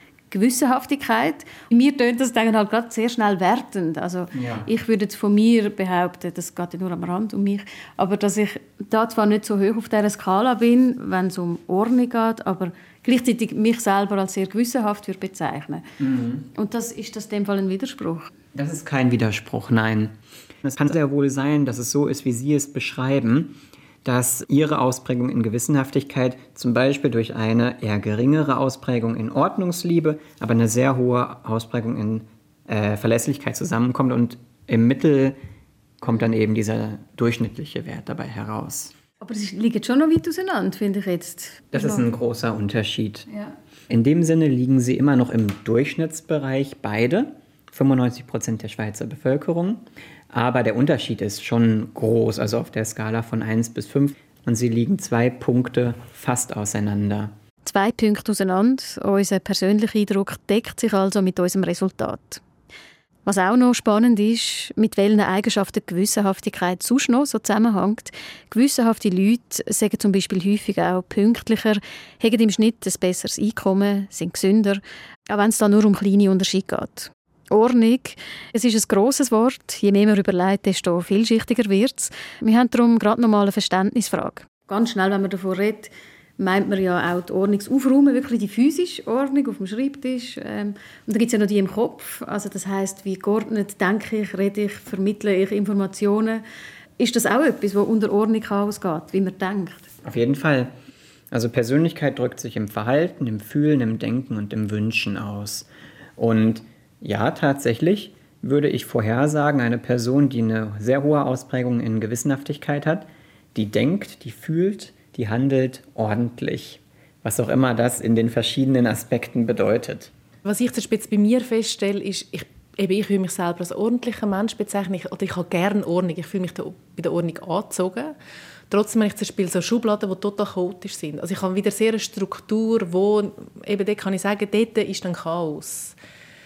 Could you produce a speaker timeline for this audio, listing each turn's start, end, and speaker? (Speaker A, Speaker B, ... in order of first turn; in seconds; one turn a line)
Speaker A: 0.3-15.9
Speaker B: 4.3-4.7
Speaker B: 16.0-16.5
Speaker A: 16.5-18.3
Speaker B: 18.5-35.4
Speaker B: 36.0-38.9
Speaker A: 39.2-42.0
Speaker B: 41.7-43.3
Speaker B: 43.9-57.3
Speaker A: 57.6-62.4
Speaker A: 63.2-96.4
Speaker A: 97.0-99.9
Speaker B: 100.0-100.7
Speaker B: 101.3-120.1
Speaker C: 120.5-128.2
Speaker C: 128.7-136.0